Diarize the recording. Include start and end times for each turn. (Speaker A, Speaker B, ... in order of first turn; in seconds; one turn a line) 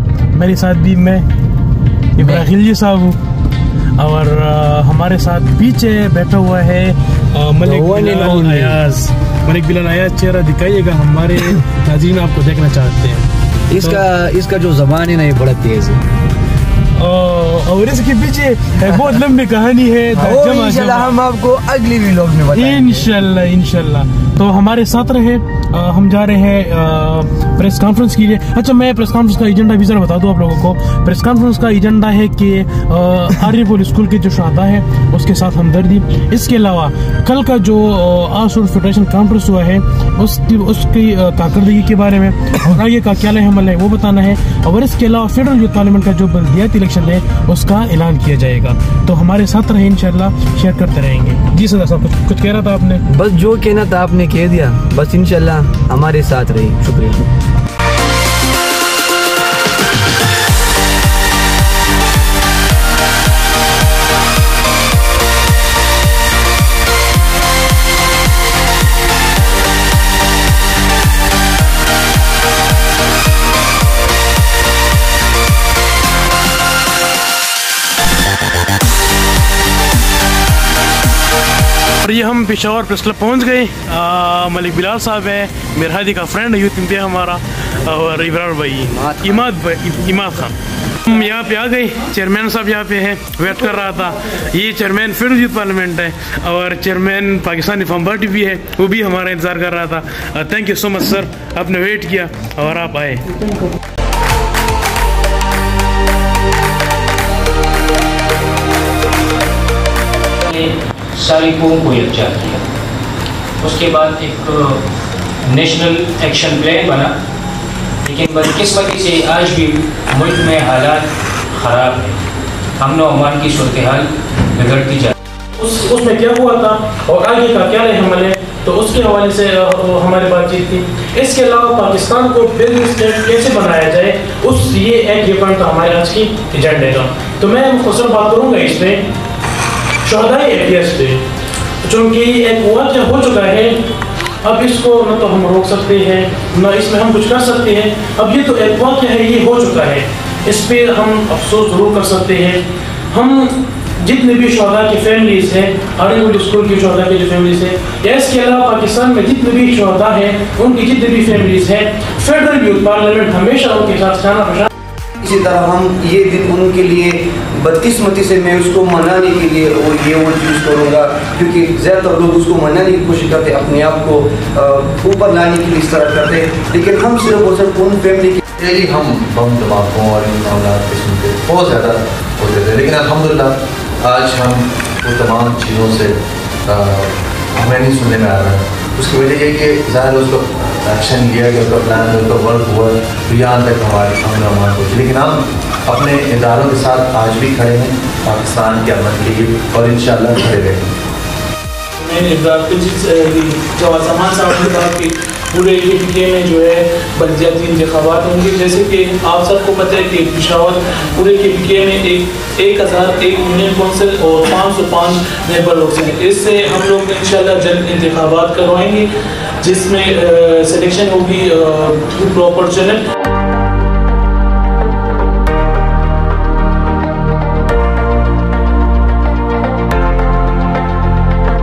Speaker A: 0.3-1.2
Speaker A: 2.1-3.2
Speaker A: 4.0-13.2
Speaker B: 7.6-8.8
Speaker B: 13.7-16.0
Speaker A: 16.9-21.1
Speaker B: 20.1-23.1
Speaker A: 22.5-53.0
Speaker B: 53.1-57.2
Speaker A: 82.0-103.3
Speaker C: 110.4-112.6
Speaker C: 113.6-114.8
Speaker C: 115.5-117.1
Speaker C: 118.0-122.2
Speaker C: 122.8-125.1
Speaker A: 125.5-139.0
Speaker A: 140.0-141.2
Speaker A: 141.8-143.8
Speaker A: 144.4-164.7
Speaker D: 165.2-178.4
Speaker E: 178.6-186.2
Speaker E: 186.7-200.9
Speaker F: 202.0-219.1
Speaker F: 219.6-223.0